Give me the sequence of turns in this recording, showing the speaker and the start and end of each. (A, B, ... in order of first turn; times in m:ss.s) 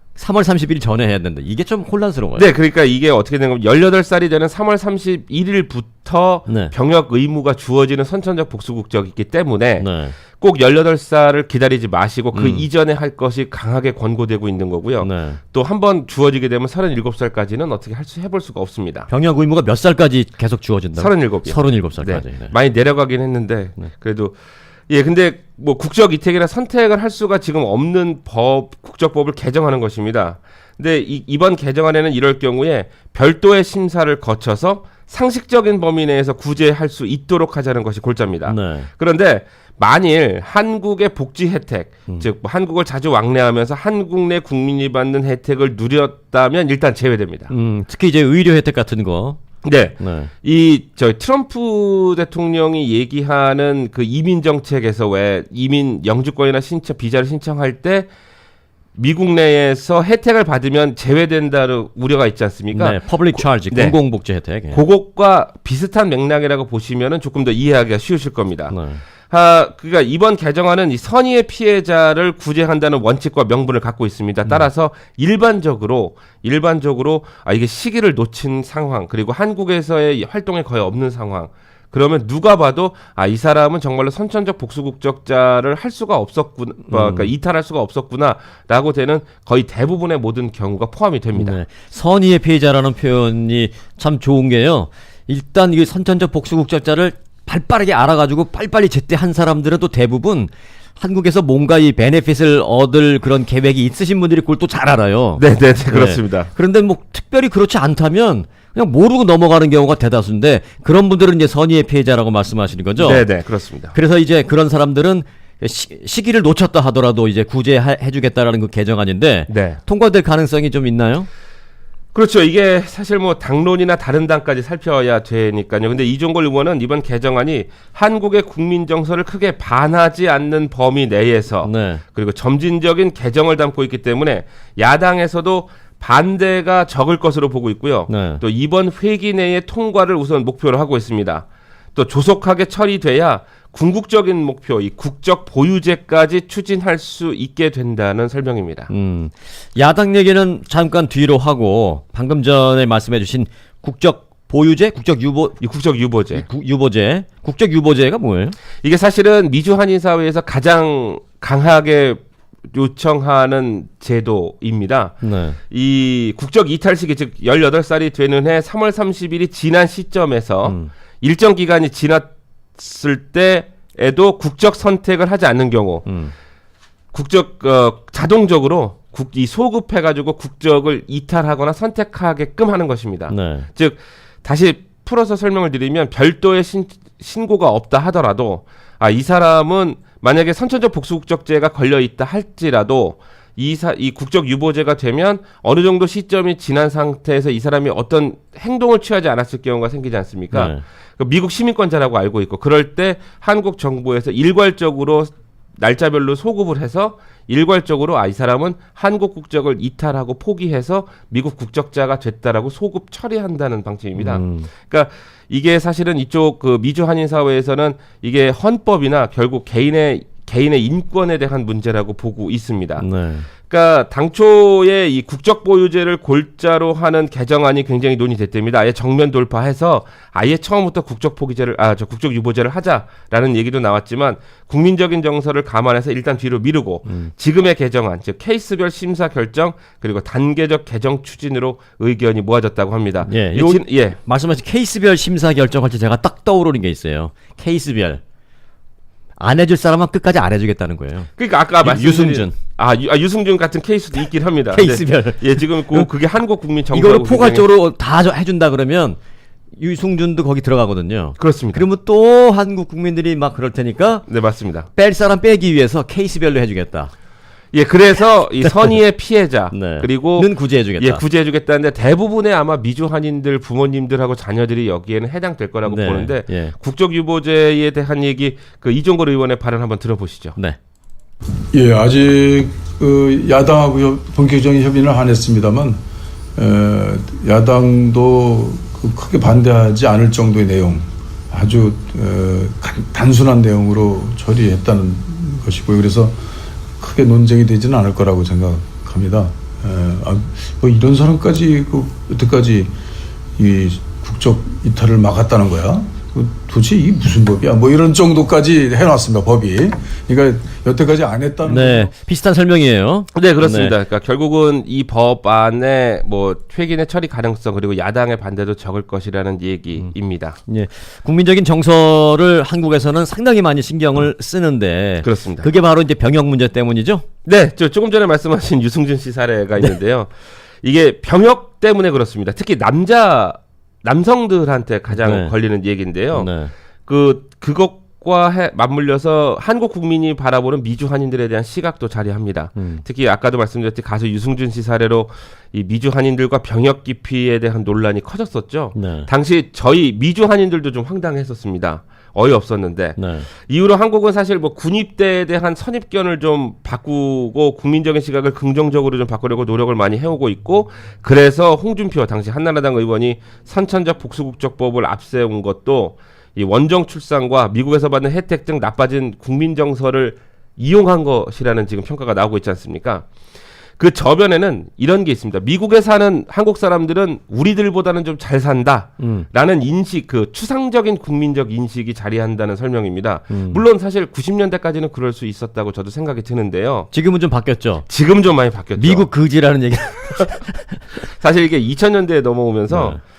0:00.2-0:02.4 A
0:02.4-0:19.1 B
0:06.5-0:06.7 A
0:09.8-0:10.2 A
0:12.3-0:12.6 A
0:15.0-0:15.4 A
0:19.1-0:22.5 A
0:21.0-0:24.4 B
0:24.9-0:47.5 B
0:38.4-0:38.9 A
0:47.5-0:49.4 A
0:49.6-0:58.1 B
0:50.0-0:50.3 A
0:59.0-1:04.0 B
1:02.7-1:04.8 A
1:04.7-1:08.7 B
1:08.7-1:09.0 A
1:09.3-1:31.6 B
1:26.9-1:27.3 A
1:31.3-1:53.3 A
1:45.4-1:46.5 B
1:53.0-1:53.9 B
1:53.9-2:01.3 A
1:59.5-1:59.8 B
2:02.1-2:28.9 B
2:11.6-2:12.0 A
2:18.1-2:18.4 A
2:28.9-2:35.6 A
2:35.6-2:36.4 B
2:36.3-2:38.6 A
2:38.8-2:56.0 B
2:45.2-2:45.6 A
2:50.6-2:50.9 A
2:56.0-2:56.3 A
2:57.1-3:43.0 B
3:03.3-3:03.7 A
3:20.5-3:20.8 A
3:34.2-3:34.7 A
3:43.0-3:43.5 A
3:43.7-4:04.2 B
4:03.2-4:08.2 A
4:09.4-4:12.6 A
4:11.4-4:17.7 B
4:14.7-4:16.1 A
4:16.9-4:19.2 A
4:19.8-4:24.2 A
4:21.4-4:21.8 B
4:24.3-4:24.9 B
4:25.0-4:27.1 A
4:27.7-4:40.6 B
4:28.6-4:28.9 A
4:29.7-4:31.2 A
4:35.8-4:36.7 A
4:41.7-4:46.0 C
4:46.6-4:56.4 C
4:57.0-5:02.9 C
5:03.6-5:12.1 C
5:11.6-5:13.9 A
5:13.3-5:20.6 B
5:20.7-5:27.2 A
5:25.2-5:25.7 B
5:27.4-5:30.3 B
5:30.8-5:36.5 B
5:35.1-5:35.5 A
5:36.3-5:36.7 A
5:37.1-6:13.3 B
5:42.8-5:43.0 A
5:48.9-5:49.3 A
5:53.2-5:53.5 A
6:14.0-6:27.1 B
6:19.2-6:19.4 A
6:23.5-6:23.8 A
6:27.1-6:28.0 A
6:28.1-6:29.3 B
6:29.0-6:31.0 A
6:31.4-6:33.2 B
6:32.9-6:33.2 A